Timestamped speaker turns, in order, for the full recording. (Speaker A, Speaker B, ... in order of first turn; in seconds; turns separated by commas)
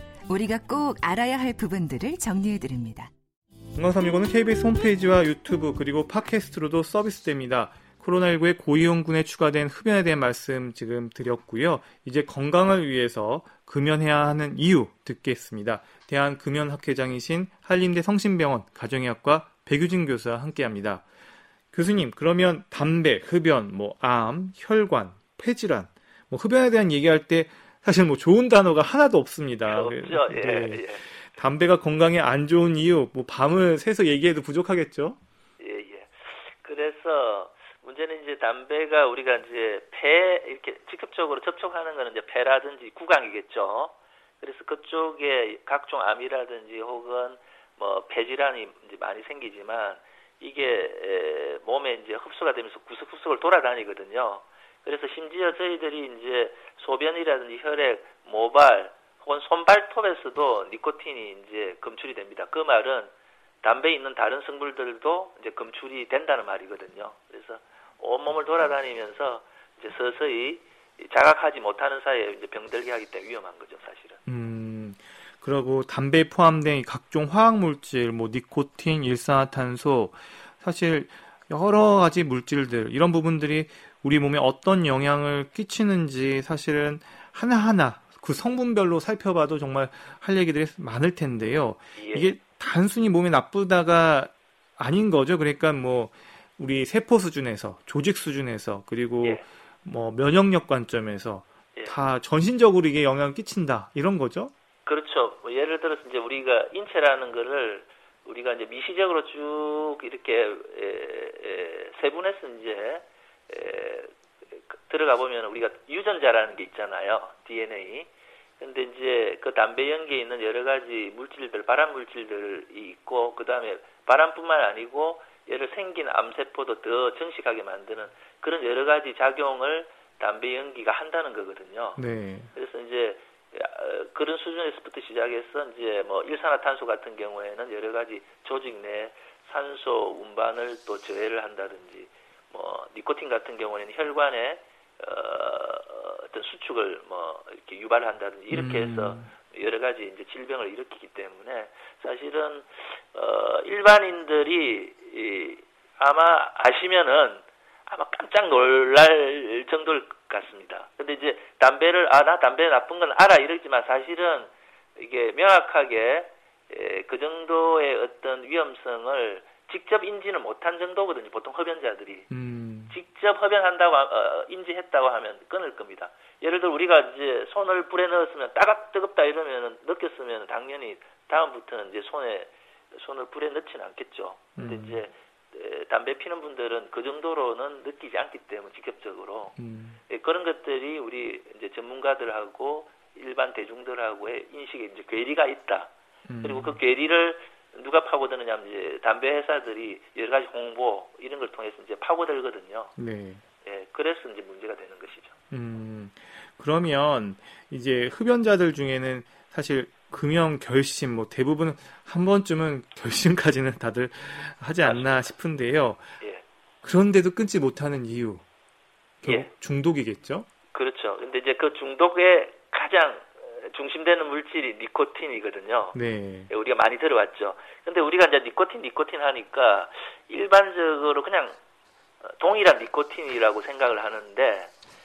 Speaker A: 0.3-3.1, Speaker B: 3.7-21.1, Speaker B: 21.7-35.2, Speaker C: 29.7-31.1, Speaker C: 35.6-63.1, Speaker C: 63.6-74.2, Speaker B: 74.3-104.5, Speaker C: 92.0-92.3, Speaker C: 104.9-118.1, Speaker C: 118.6-132.0, Speaker B: 132.0-132.5, Speaker C: 132.6-172.3, Speaker B: 148.5-149.3, Speaker B: 172.3-172.9, Speaker C: 172.9-189.6, Speaker B: 184.6-185.0, Speaker B: 189.6-190.0, Speaker C: 190.1-195.9, Speaker B: 196.3-196.8, Speaker C: 196.4-202.9, Speaker B: 203.0-203.4, Speaker C: 203.6-205.3, Speaker B: 205.5-216.1, Speaker C: 214.8-215.3, Speaker B: 216.8-218.4, Speaker B: 219.2-220.5, Speaker C: 220.7-226.0, Speaker B: 225.9-226.5, Speaker C: 226.5-231.6, Speaker C: 232.2-234.7